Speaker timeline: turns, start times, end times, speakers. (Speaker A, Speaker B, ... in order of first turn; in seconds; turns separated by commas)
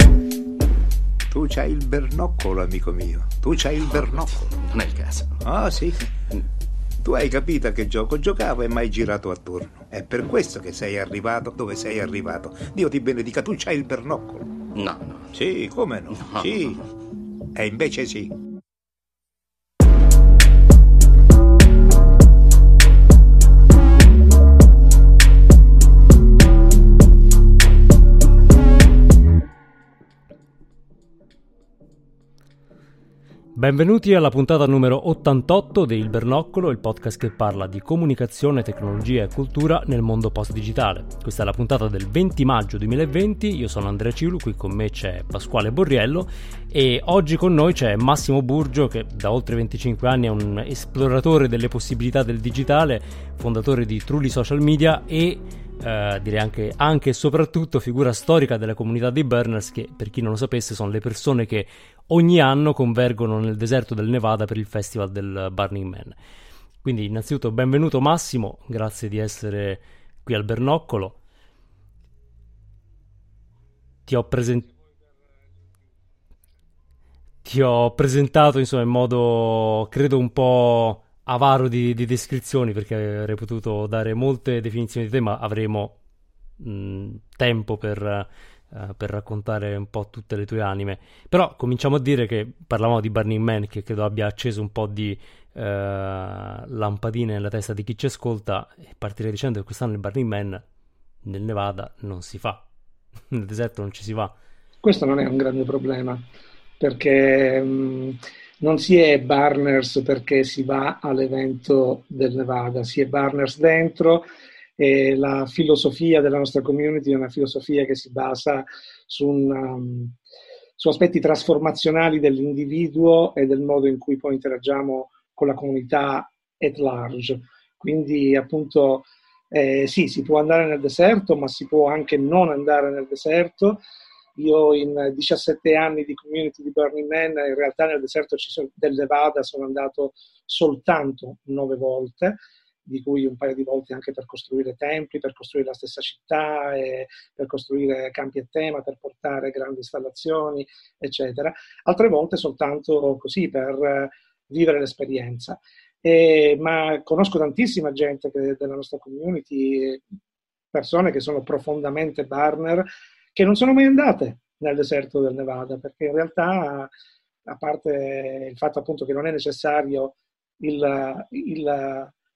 Speaker A: 1.3-4.4, Speaker B: 4.3-5.4, Speaker A: 5.4-6.1, Speaker A: 7.0-14.5, Speaker B: 14.7-15.3, Speaker A: 15.3-16.8, Speaker B: 16.1-16.7, Speaker A: 17.5-18.3, Speaker C: 33.5-66.2, Speaker C: 66.8-71.2, Speaker C: 74.0-74.7, Speaker C: 77.4-86.0, Speaker C: 86.6-100.6, Speaker C: 101.2-102.6, Speaker C: 103.3-104.3, Speaker D: 104.8-106.2, Speaker D: 106.8-114.2, Speaker D: 114.8-120.2, Speaker D: 120.8-133.8, Speaker D: 134.3-160.0, Speaker D: 160.7-166.9, Speaker D: 167.4-172.1